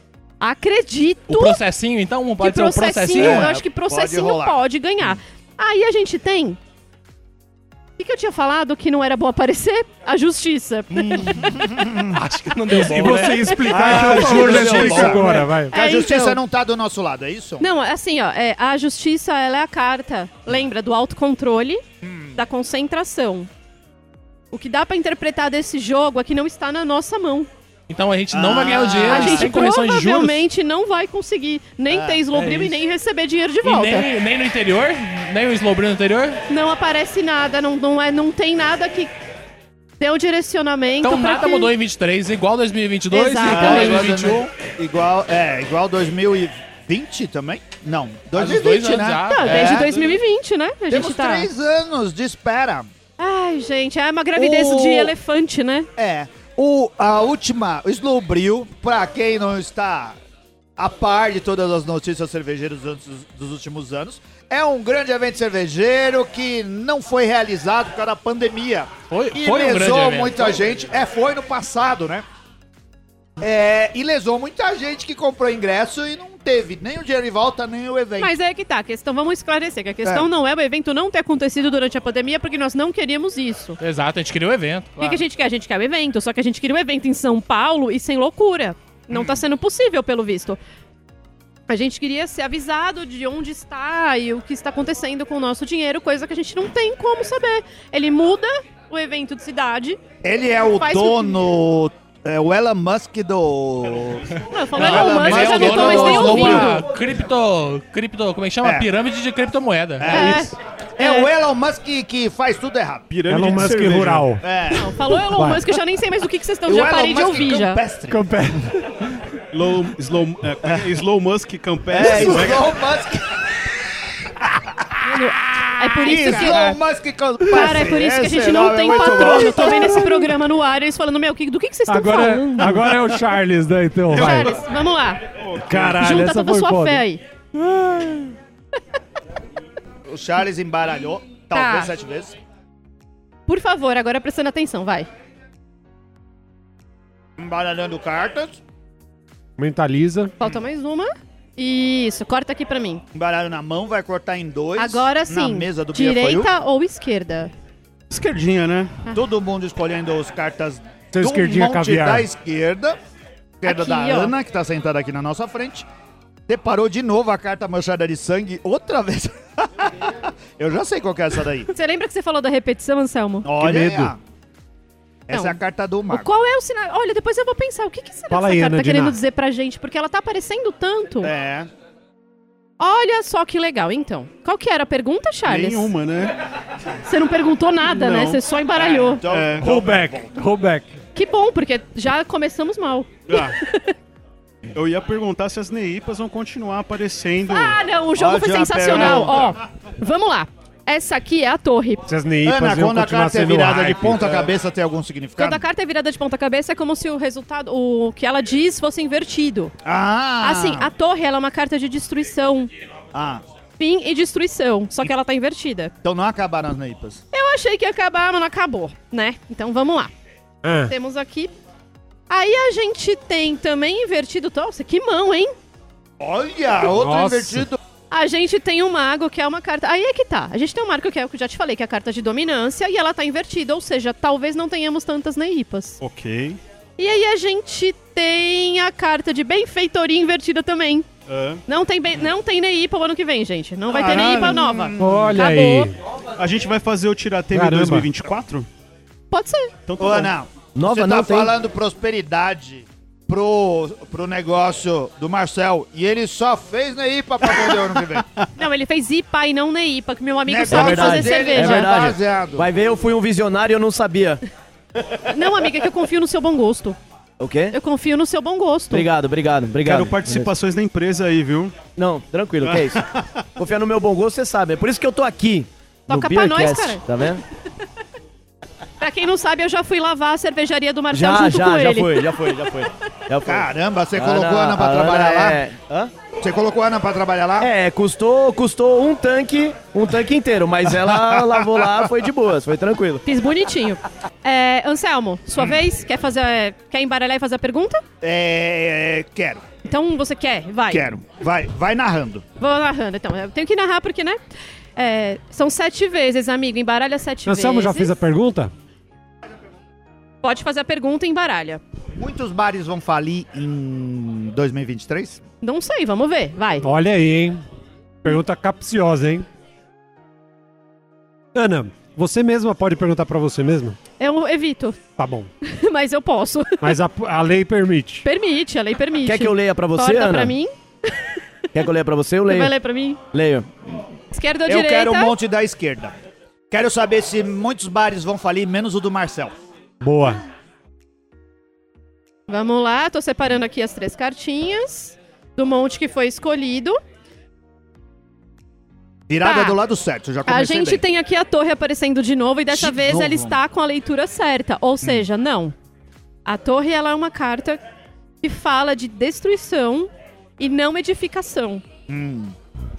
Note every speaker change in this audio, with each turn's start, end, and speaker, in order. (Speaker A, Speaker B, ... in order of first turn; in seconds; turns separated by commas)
Speaker A: 0.4-1.6, Speaker B: 1.3-3.5, Speaker A: 2.4-6.6, Speaker C: 3.1-4.6, Speaker A: 8.0-11.6, Speaker B: 10.9-13.6, Speaker C: 11.5-12.2, Speaker D: 12.7-15.8, Speaker A: 13.4-15.2, Speaker C: 13.6-17.7, Speaker E: 14.4-15.2, Speaker A: 15.7-16.4, Speaker A: 17.6-21.8, Speaker C: 22.0-22.4, Speaker A: 22.4-23.5, Speaker A: 24.5-27.5, Speaker B: 27.9-30.4, Speaker C: 28.3-29.6, Speaker A: 29.0-34.1, Speaker B: 32.0-32.8, Speaker B: 33.6-36.4, Speaker A: 36.5-39.1, Speaker A: 40.0-41.7, Speaker B: 41.0-44.5, Speaker A: 43.1-44.2, Speaker C: 43.5-49.9, Speaker B: 48.3-50.1, Speaker A: 49.3-51.5, Speaker C: 50.9-52.9, Speaker A: 53.2-55.9, Speaker C: 54.4-55.1, Speaker C: 56.0-60.2, Speaker C: 60.8-72.2, Speaker B: 69.1-70.6, Speaker C: 73.4-78.3, Speaker A: 78.2-83.8, Speaker B: 83.8-85.2, Speaker A: 85.0-90.6, Speaker A: 91.7-100.0, Speaker C: 100.2-106.8, Speaker A: 100.7-101.4, Speaker A: 104.4-106.9, Speaker B: 104.8-110.3, Speaker F: 105.4-105.8, Speaker C: 108.6-108.9, Speaker C: 110.0-113.1, Speaker A: 110.0-111.3, Speaker D: 110.2-110.4, Speaker F: 113.1-114.3, Speaker D: 113.3-114.4, Speaker C: 114.4-114.9, Speaker A: 114.7-117.8, Speaker D: 115.1-115.6, Speaker C: 116.7-118.3, Speaker D: 118.1-119.3, Speaker F: 119.5-122.8, Speaker C: 121.9-123.6, Speaker C: 124.3-124.7, Speaker A: 125.0-126.8, Speaker C: 126.0-130.3, Speaker A: 127.5-132.9, Speaker D: 131.9-134.6, Speaker F: 134.1-134.7, Speaker A: 134.1-135.3, Speaker F: 135.3-136.1, Speaker D: 135.6-137.0, Speaker A: 135.9-137.2, Speaker C: 140.1-142.4, Speaker A: 141.5-141.9, Speaker A: 143.5-145.1, Speaker C: 147.4-148.6, Speaker D: 149.6-150.3, Speaker A: 150.4-153.0, Speaker C: 153.1-156.5, Speaker A: 154.8-157.5, Speaker F: 158.1-159.0, Speaker C: 159.1-163.0, Speaker D: 161.1-162.3, Speaker C: 163.6-165.9, Speaker A: 163.6-164.3, Speaker C: 166.5-171.7, Speaker A: 171.7-173.5, Speaker C: 173.4-174.2, Speaker D: 173.6-174.1, Speaker C: 175.3-176.3, Speaker A: 175.3-181.3, Speaker D: 178.3-179.2, Speaker C: 181.2-181.7, Speaker A: 182.8-185.9, Speaker F: 185.5-186.4, Speaker A: 187.0-189.2, Speaker F: 187.8-188.4, Speaker C: 188.7-190.3, Speaker F: 189.2-189.7, Speaker D: 189.6-190.9, Speaker A: 191.2-193.9, Speaker F: 193.3-193.6, Speaker F: 194.8-197.8, Speaker A: 197.5-202.1, Speaker C: 198.2-199.6, Speaker D: 202.1-204.4, Speaker C: 202.4-205.6, Speaker A: 205.4-209.7, Speaker C: 209.8-210.9, Speaker A: 210.4-212.7, Speaker C: 213.1-213.4, Speaker A: 213.8-215.9, Speaker C: 216.0-217.2, Speaker A: 217.3-220.1, Speaker D: 220.6-220.9, Speaker A: 220.9-221.5, Speaker A: 222.3-225.5, Speaker C: 226.2-227.8, Speaker D: 226.9-227.7, Speaker A: 228.1-236.0, Speaker F: 236.0-236.6, Speaker A: 237.0-241.1, Speaker F: 241.3-241.6, Speaker A: 241.7-245.9, Speaker C: 243.9-245.3, Speaker F: 244.0-244.6, Speaker D: 245.0-245.9, Speaker F: 246.4-248.7, Speaker D: 247.5-248.1, Speaker A: 249.3-249.7, Speaker F: 249.9-250.3, Speaker C: 250.0-258.3, Speaker E: 250.8-251.5, Speaker A: 258.6-262.1, Speaker C: 260.5-262.7, Speaker E: 260.7-264.4, Speaker A: 265.2-267.0, Speaker E: 267.4-267.8, Speaker A: 267.7-269.1, Speaker E: 268.9-270.5, Speaker F: 269.8-271.8, Speaker E: 272.0-277.4, Speaker F: 272.6-273.3, Speaker A: 276.1-277.0, Speaker A: 279.0-282.5, Speaker E: 281.1-286.1, Speaker C: 283.5-285.6, Speaker C: 286.4-287.7, Speaker E: 287.6-293.2, Speaker C: 291.0-291.9, Speaker A: 293.2-298.0, Speaker C: 298.2-299.6, Speaker A: 299.9-301.1, Speaker C: 300.9-302.4, Speaker A: 302.6-304.4, Speaker A: 305.0-308.1, Speaker D: 307.5-308.7, Speaker A: 310.4-311.8, Speaker C: 312.2-315.4, Speaker A: 315.6-316.9, Speaker D: 316.8-317.6, Speaker D: 318.2-319.5, Speaker D: 321.5-324.0, Speaker A: 324.2-325.0, Speaker D: 325.2-325.5, Speaker A: 325.6-326.9, Speaker D: 326.8-328.3, Speaker A: 328.2-331.3, Speaker E: 329.2-330.5, Speaker E: 331.7-332.8, Speaker A: 332.5-333.2, Speaker E: 333.3-333.7, Speaker A: 334.3-335.4, Speaker C: 334.7-336.1, Speaker C: 336.7-339.6, Speaker D: 340.0-340.4, Speaker A: 342.5-347.0, Speaker C: 349.3-351.0, Speaker A: 349.4-349.8, Speaker A: 350.5-355.7, Speaker C: 352.7-353.6, Speaker A: 356.5-357.8, Speaker A: 358.4-361.8, Speaker C: 362.1-362.6